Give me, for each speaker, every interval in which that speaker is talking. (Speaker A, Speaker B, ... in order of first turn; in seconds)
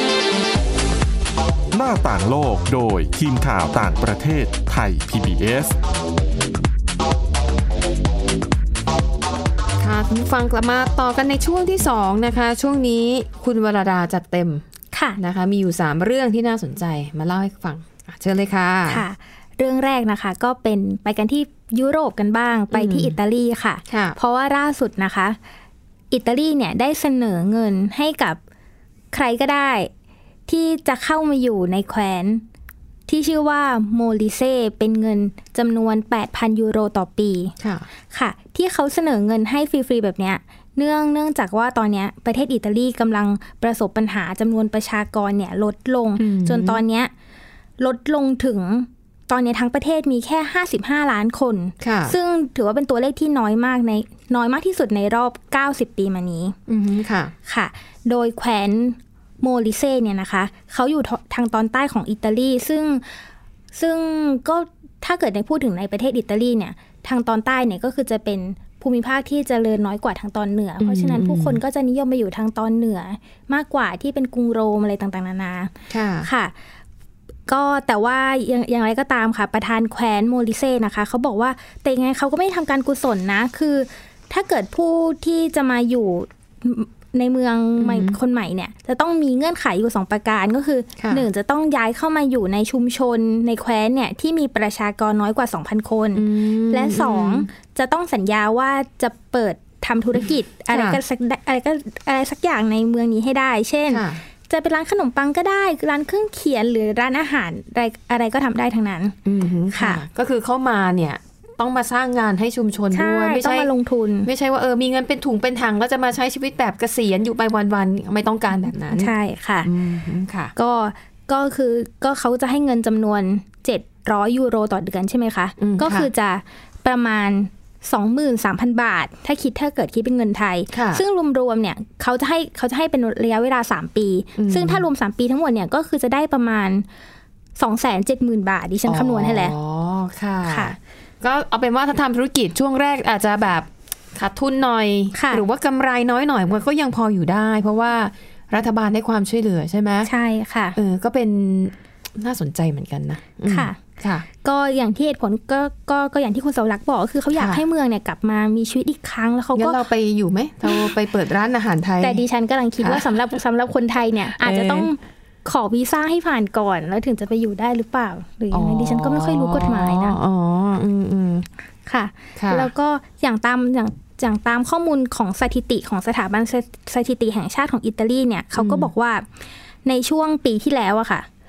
Speaker A: 1.7-5.7
Speaker B: 9.8-14.6, 15.2-19.0, 22.7-23.1, 23.9-24.2, 37.6-37.9, 46.2-46.8, 51.8-52.1, 56.7-57.3, 70.8-71.6, 75.9-76.3, 87.8-88.2, 91.0-91.2, 96.1-97.5, 100.7-101.0, 103.9-104.2, 109.2-113.7, 114.2-119.1, 119.6-120.5, 125.6-126.1, 130.7-131.0, 134.4-134.8, 138.9-150.1, 150.7-154.2, 157.3-157.6, 159.6-162.2, 164.4-164.9, 168.5-171.5, 172.4-172.7, 178.6-178.9
Speaker C: 14.9-15.2, 18.9-25.4, 26.1-28.4, 29.1-29.9, 30.5-32.4, 33.1-37.5, 38.1-47.1, 47.8-56.5, 57.5-63.2, 63.7-75.7, 76.2-76.5, 77.5-109.2, 109.7-110.0, 112.9-114.3, 118.9-119.7, 120.5-136.8, 137.6-139.5, 140.4-140.7, 145.1-145.4, 150.0-150.8, 153.5-153.8, 154.3-159.8, 160.7-160.9, 162.0-170.2, 171.8-179.2, 179.8-181.3